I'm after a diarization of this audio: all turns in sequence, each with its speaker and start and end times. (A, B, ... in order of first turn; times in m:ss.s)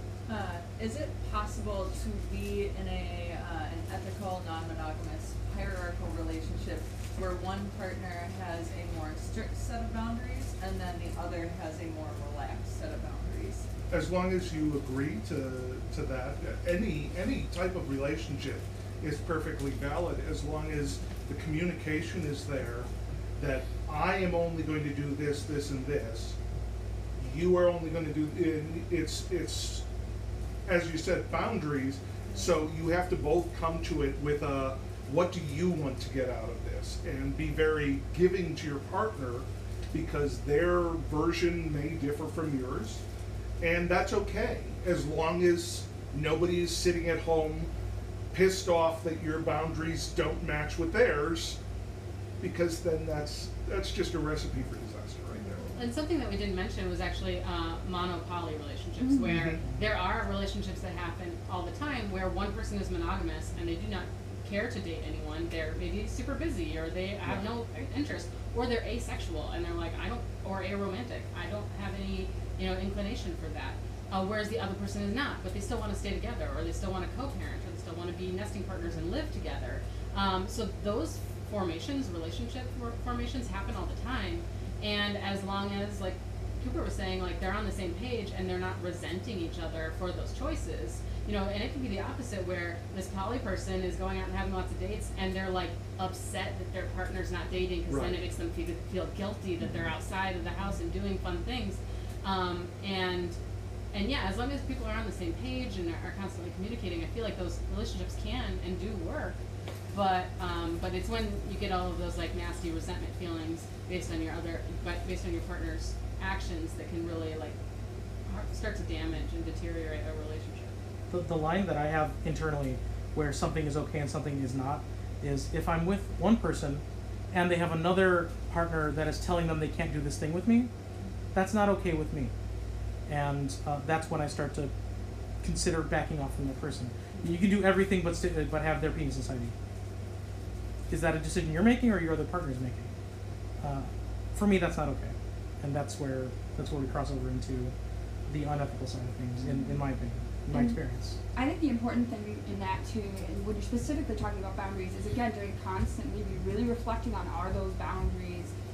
0:00.3-0:13.6 A
0:13.9-0:26.4 B
0:27.2-0:29.8 B
0:30.6-0:43.0 B
0:43.6-0:47.7 B
0:48.3-0:51.6 B
0:52.4-0:55.7 B
0:55.8-1:43.4 C
0:59.0-0:59.5 D
0:59.2-0:59.6 B
1:37.9-1:38.2 B
1:43.9-1:49.4 C
1:49.9-1:57.6 C
1:58.3-2:00.7 C
2:01.1-2:10.7 E
2:11.3-2:12.3 E
2:13.1-2:14.7 E
2:15.4-2:19.5 E
2:20.9-2:22.9 E
2:23.6-2:27.7 E
2:28.3-2:31.2 E
2:30.5-2:30.8 D
2:31.3-2:38.5 D